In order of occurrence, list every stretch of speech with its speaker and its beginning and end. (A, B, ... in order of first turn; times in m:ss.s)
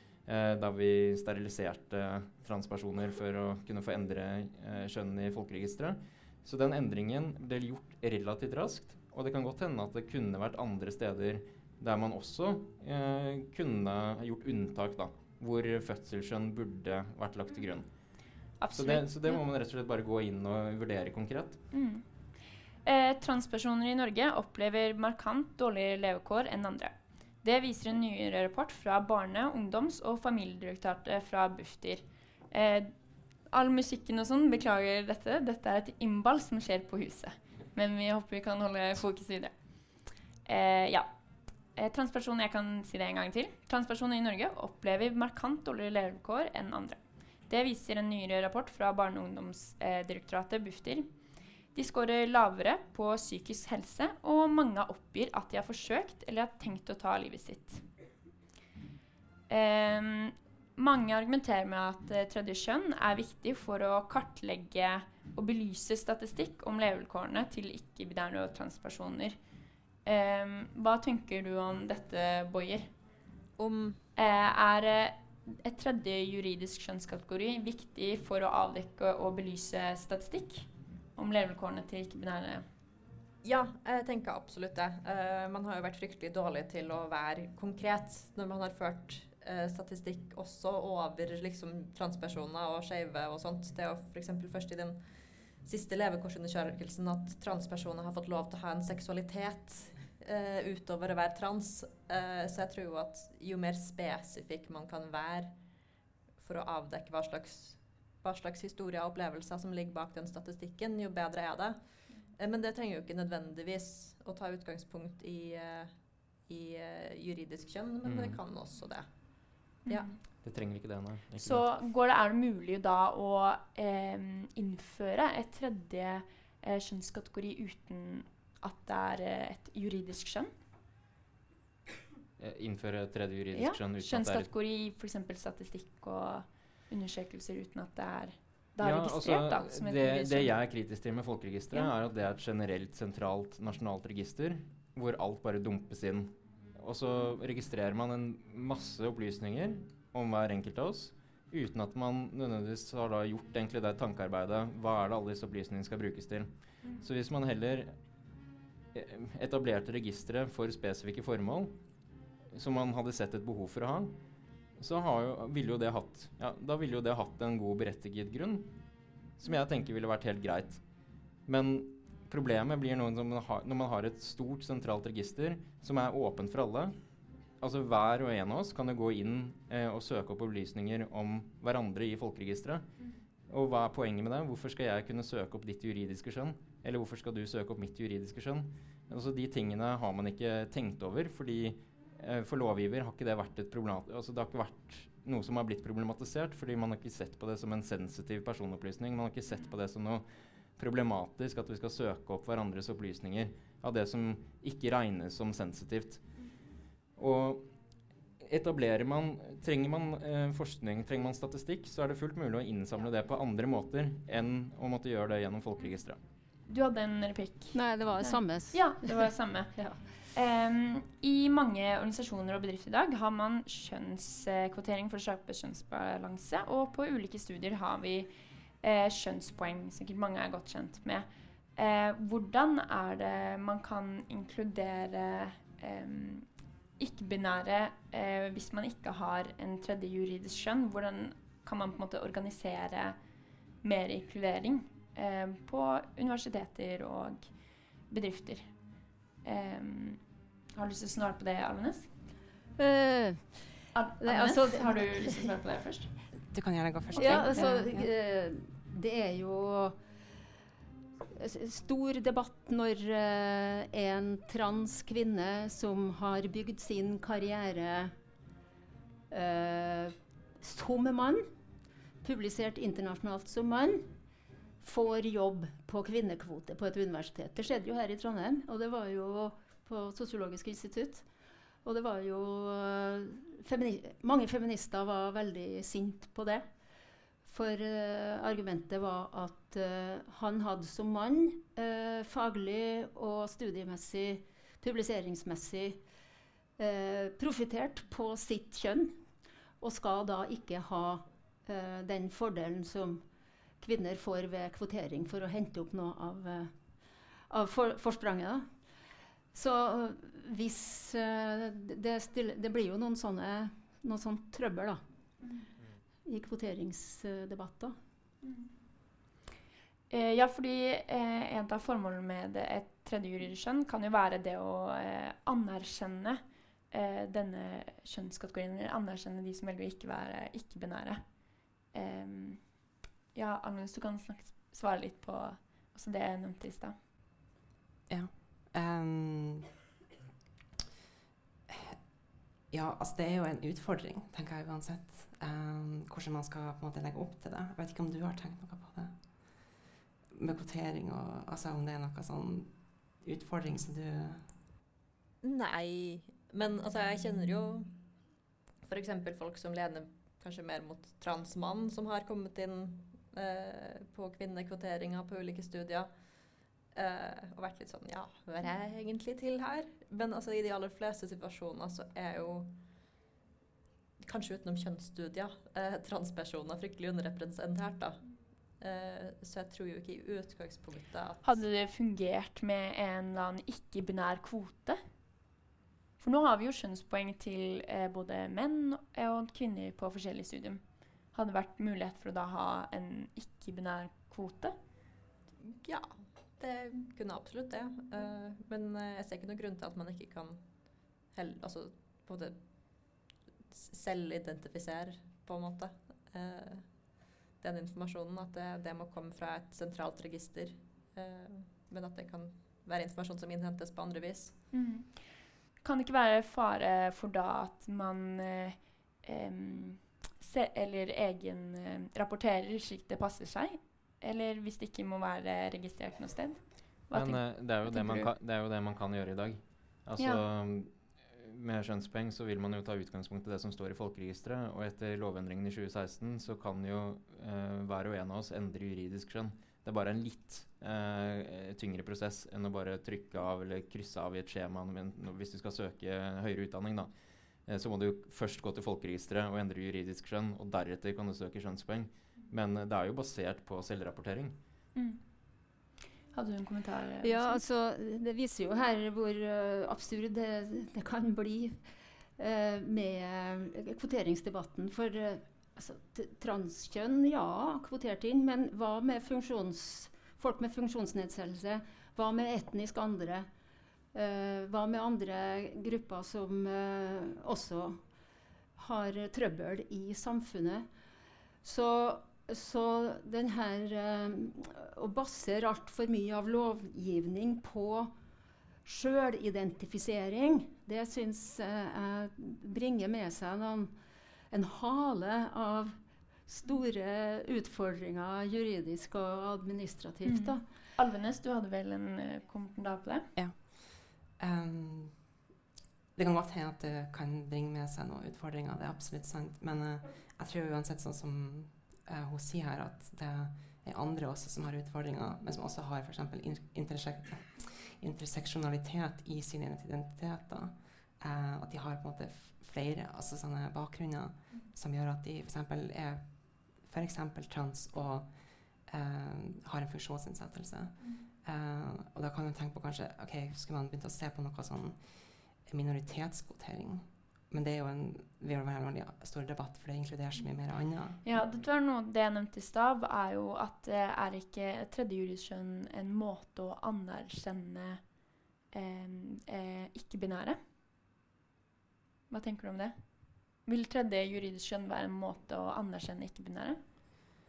0:00.3-0:17.9 A
0:18.6-0:19.4 B
0:18.8-0:21.6 A
0:21.7-0:22.0 B
0:22.8-0:32.9 B
0:33.5-0:39.6 B
0:40.4-0:41.1 B
0:41.8-0:51.1 B
0:51.8-0:57.8 B
0:59.5-1:09.4 B
1:10.0-1:12.9 B
1:13.6-1:14.0 C
1:14.2-1:22.7 B
1:23.4-1:35.1 C
1:35.6-1:45.6 C
1:46.4-1:59.1 C
1:58.0-1:58.4 A
1:59.9-2:00.1 B
2:00.4-2:01.6 A
2:01.4-2:10.5 B
2:12.4-2:14.5 A
2:13.6-2:20.5 B
2:18.8-2:36.5 A
2:37.0-2:37.9 A
2:38.9-2:41.8 A
2:42.5-2:44.2 A
2:44.8-2:48.8 A
2:49.4-2:50.8 A
2:51.5-2:57.0 A
2:57.6-3:02.8 A
3:03.5-3:20.2 A
3:20.8-3:26.2 A
3:27.2-3:27.7 A
3:28.4-3:36.2 A
3:36.7-3:48.3 B
3:37.7-3:40.0 D
3:48.8-3:56.5 B
3:57.0-4:03.2 B
4:03.8-4:07.5 B
4:08.1-4:08.7 B
4:09.4-4:12.1 B
4:12.8-4:13.6 D
4:13.9-4:16.1 B
4:14.2-4:15.5 D
4:16.5-4:18.1 E
4:17.1-4:17.8 B
4:17.2-4:20.0 D
4:21.4-4:28.1 D
4:29.3-4:31.4 D
4:32.2-4:34.1 D
4:34.8-4:41.3 D
4:41.8-4:46.7 D
4:47.5-4:56.0 D
4:56.8-4:59.2 D
4:59.8-5:03.2 D
5:03.8-5:06.7 D
5:07.5-5:08.7 D
5:09.5-5:15.0 D
5:16.2-5:18.0 D
5:20.1-5:31.2 B
5:31.8-5:37.0 B
5:38.1-5:39.7 E
5:41.7-5:42.0 E
5:42.7-5:49.7 E
5:50.3-5:54.5 E
5:55.4-5:58.0 C
5:58.8-6:06.1 C
6:06.9-6:12.8 C
6:14.2-6:21.6 C
6:21.4-6:25.0 B
6:26.2-6:34.8 B
6:35.6-6:40.7 C
6:41.3-6:46.9 C
6:47.6-6:54.6 C
6:54.7-6:55.2 B
6:55.8-7:08.3 B
7:07.1-7:27.1 A
7:10.2-7:10.4 D
7:27.7-7:34.6 A
7:36.3-7:37.6 B
7:37.2-7:41.8 D
7:42.4-7:53.5 D
7:54.1-7:58.0 D
7:58.8-8:00.9 D
8:01.6-8:08.1 D
8:08.8-8:13.9 D
8:14.5-8:16.0 D
8:16.5-8:20.6 D
8:20.2-8:23.3 B
8:23.4-8:25.2 E
8:26.2-8:48.3 E
8:48.9-9:01.2 E
9:01.2-9:08.0 B
9:08.7-9:10.6 B
9:12.3-9:13.0 B
9:13.6-9:16.8 B